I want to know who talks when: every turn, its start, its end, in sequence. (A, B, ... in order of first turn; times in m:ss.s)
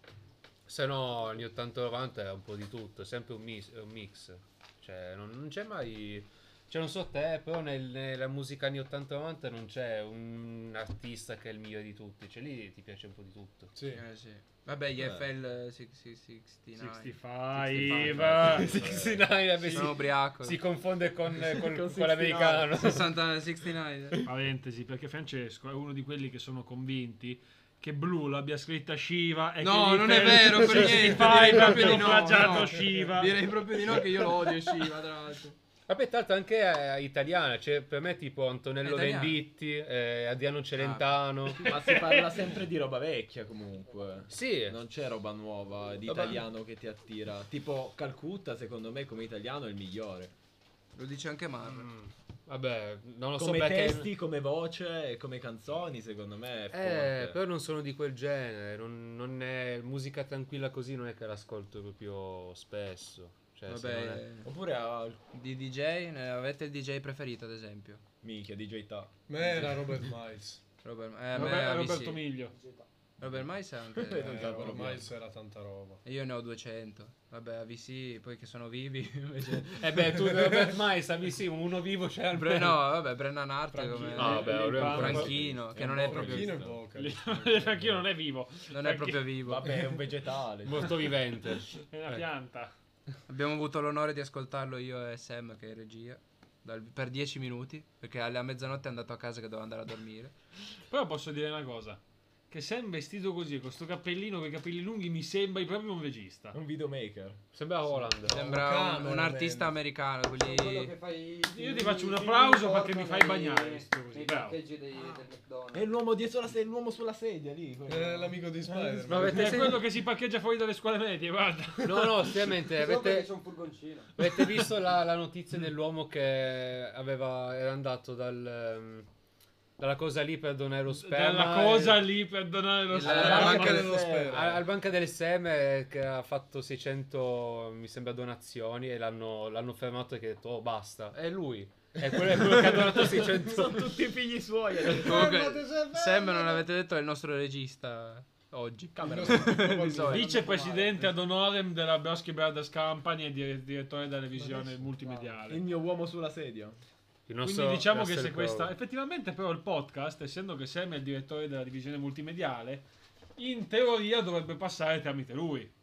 0:00.6-0:13.7 A
0:13.7-0:14.0 B
0:13.9-0:18.8 C
0:15.0-0:15.2 D
0:16.8-0:19.0 E
0:17.8-0:23.1 A
0:18.2-0:19.4 D
0:19.6-0:20.6 C
0:21.5-0:22.7 D
0:22.7-0:24.2 C
0:24.2-0:33.5 E
0:29.6-0:35.6 C
0:35.9-0:41.7 A
0:38.8-0:39.4 C
0:40.8-0:41.5 C
0:41.6-0:50.3 D
0:41.7-0:42.3 E
0:44.3-0:44.8 A
0:46.0-0:46.4 A
0:50.9-0:51.9 C
0:51.7-0:54.1 A
0:53.4-0:57.4 D
0:56.7-1:04.2 A
1:03.7-1:04.5 C
1:04.4-1:05.2 D
1:05.3-1:08.0 C
1:08.2-1:09.7 D
1:09.3-1:10.6 B
1:10.8-1:12.2 C
1:11.3-1:12.5 E
1:12.5-1:12.9 F
1:13.2-1:14.8 C
1:13.9-1:15.1 D
1:14.2-1:16.0 B
1:16.0-1:20.1 C
1:19.8-1:22.8 A
1:22.4-1:26.6 C
1:23.7-1:26.8 D
1:24.0-1:25.3 E
1:24.1-1:25.3 A
1:25.9-1:28.0 B
1:26.9-1:29.3 E
1:28.7-1:29.8 C
1:29.4-1:31.0 D
1:30.6-1:32.2 A
1:31.8-1:32.7 E
1:33.3-1:40.3 C
1:40.9-1:46.6 E
1:46.5-1:47.4 D
1:47.5-1:48.4 A
1:48.2-1:49.7 B
1:48.3-1:50.9 C
1:50.4-1:55.9 F
1:51.5-1:54.6 E
1:55.7-1:59.5 D
1:57.9-1:59.8 B
1:59.1-1:59.8 A
1:59.1-2:02.5 E
2:01.8-2:03.3 A
2:02.7-2:04.1 F
2:04.2-2:09.1 A
2:09.8-2:12.0 A
2:10.9-2:13.9 E
2:12.9-2:14.0 C
2:13.0-2:14.6 B
2:13.0-2:14.5 D
2:14.3-2:23.9 A
2:22.6-2:25.4 D
2:24.8-2:26.6 B
2:24.9-2:30.4 C
2:28.9-2:30.2 D
2:29.0-2:30.5 B
2:30.1-2:35.6 E
2:30.2-2:31.0 F
2:34.4-2:34.9 B
2:35.4-2:36.8 D
2:37.3-2:38.7 A
2:37.4-2:42.8 E
2:43.4-2:45.7 E